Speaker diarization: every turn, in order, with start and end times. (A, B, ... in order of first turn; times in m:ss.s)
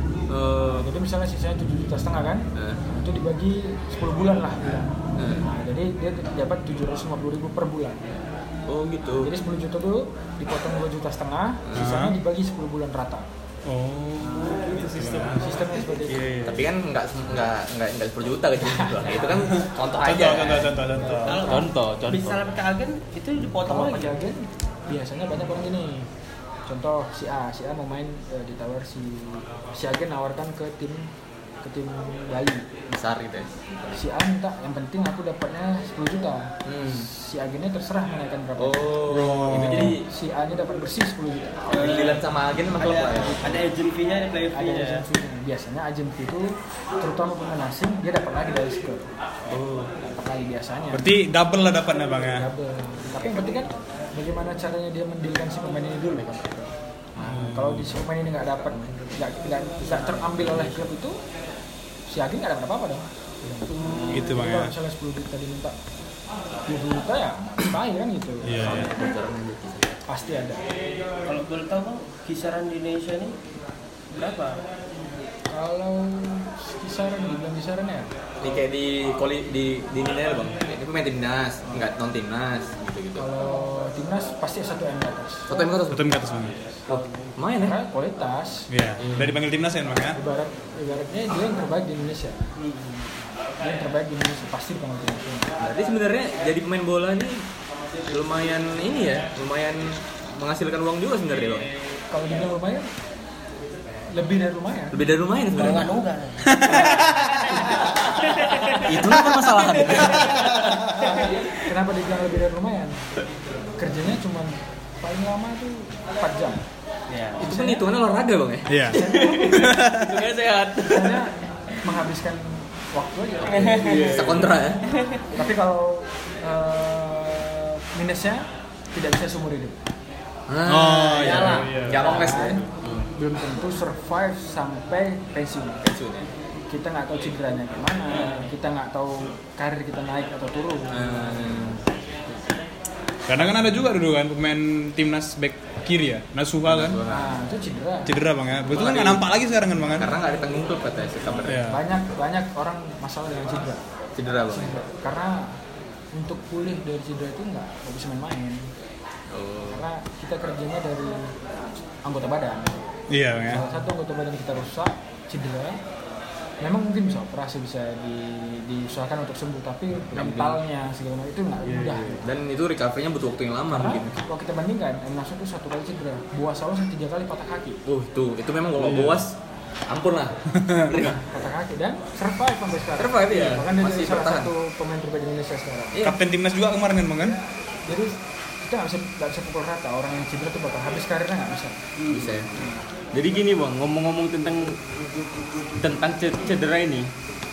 0:00.3-0:00.9 A
0:00.7-0:08.2 B
0:02.6-0:02.8 A
0:05.2-0:05.4 A
0:08.7-0:09.3 A
0:09.2-0:13.3 B
0:11.6-0:11.9 A
0:11.8-0:12.2 C
0:13.7-0:15.4 C
0:14.2-0:14.7 B
0:14.5-0:15.5 D
0:15.3-0:16.4 B
0:16.1-0:16.7 D
0:16.4-0:20.9 A
0:18.6-0:19.7 B
0:19.4-0:21.5 C
0:20.6-0:21.7 B
0:21.2-0:24.2 E
0:21.4-0:22.5 D
0:23.6-0:26.1 B
0:26.7-0:31.1 B
0:31.6-0:32.7 B
0:32.9-0:33.6 A
0:33.9-0:42.2 B
0:36.7-0:37.1 A
0:38.6-0:40.1 A
0:39.1-0:40.0 C
0:41.7-0:43.5 A
0:41.8-0:42.2 E
0:42.8-0:45.0 E
0:43.0-0:43.7 B
0:44.5-0:49.1 B
0:49.5-0:49.9 A
0:50.0-0:51.2 B
0:50.9-0:52.5 C
0:52.2-1:01.2 B
0:57.2-0:58.0 C
1:02.1-1:03.1 B
1:03.7-1:05.8 B
1:04.1-1:04.7 C
1:06.7-1:09.1 B
1:08.4-1:08.9 C
1:08.6-1:09.9 A
1:10.1-1:10.8 B
1:11.2-1:13.4 E
1:14.1-1:14.6 E
1:15.5-1:18.1 B
1:18.4-1:23.3 A
1:23.2-1:25.6 B
1:25.5-1:27.8 A
1:25.9-1:26.6 C
1:27.6-1:28.7 B
1:28.7-1:30.2 C
1:29.0-1:29.4 A
1:30.2-1:32.5 B
1:32.6-1:33.1 E
1:33.6-1:35.6 B
1:35.6-1:37.4 A
1:38.1-1:41.7 A
1:42.1-1:42.9 B
1:44.1-1:45.0 B
1:44.9-1:46.0 A
1:45.5-1:51.5 E
1:46.5-1:47.3 C
1:48.7-1:50.6 A
1:51.3-1:53.0 B
1:53.8-1:56.6 B
1:57.1-1:57.4 E
1:57.4-1:59.4 A
1:57.4-1:57.9 B
1:58.7-2:00.3 C
1:58.9-1:59.8 B
1:59.1-2:01.2 E
2:00.8-2:04.5 B
2:03.4-2:04.2 E
2:03.8-2:04.6 D
2:03.9-2:04.8 A
2:04.9-2:05.2 E
2:05.3-2:09.8 B
2:10.5-2:13.1 A
2:10.6-2:11.7 C
2:11.2-2:12.5 E
2:11.5-2:12.1 D
2:12.0-2:15.8 B
2:15.8-2:16.3 A
2:16.7-2:21.8 B
2:20.9-2:21.8 A
2:23.3-2:27.0 C
2:26.6-2:27.4 A
2:27.1-2:28.2 B
2:28.1-2:30.1 C
2:28.7-2:29.3 A
2:30.0-2:31.6 A
2:31.4-2:31.8 C
2:31.5-2:33.8 B
2:34.2-2:34.8 A
2:34.5-2:35.6 B
2:36.1-2:38.7 B
2:39.3-2:39.8 A
2:39.6-2:41.4 B
2:42.0-2:42.9 B
2:43.1-2:43.6 C
2:43.5-2:45.8 B
2:46.6-2:52.3 B
2:50.1-2:50.6 A
2:51.6-2:52.2 D
2:52.2-2:54.2 A
2:53.7-2:57.8 B
2:57.9-2:59.4 A
2:58.8-2:59.2 D
2:59.9-3:01.2 A
3:00.5-3:01.1 C
3:01.0-3:06.1 B
3:03.0-3:04.5 A
3:05.9-3:06.2 A
3:06.0-3:07.4 C
3:07.2-3:11.9 B
3:12.1-3:12.3 E
3:12.1-3:12.6 A
3:12.5-3:12.8 B
3:13.1-3:14.9 D
3:15.7-3:17.1 D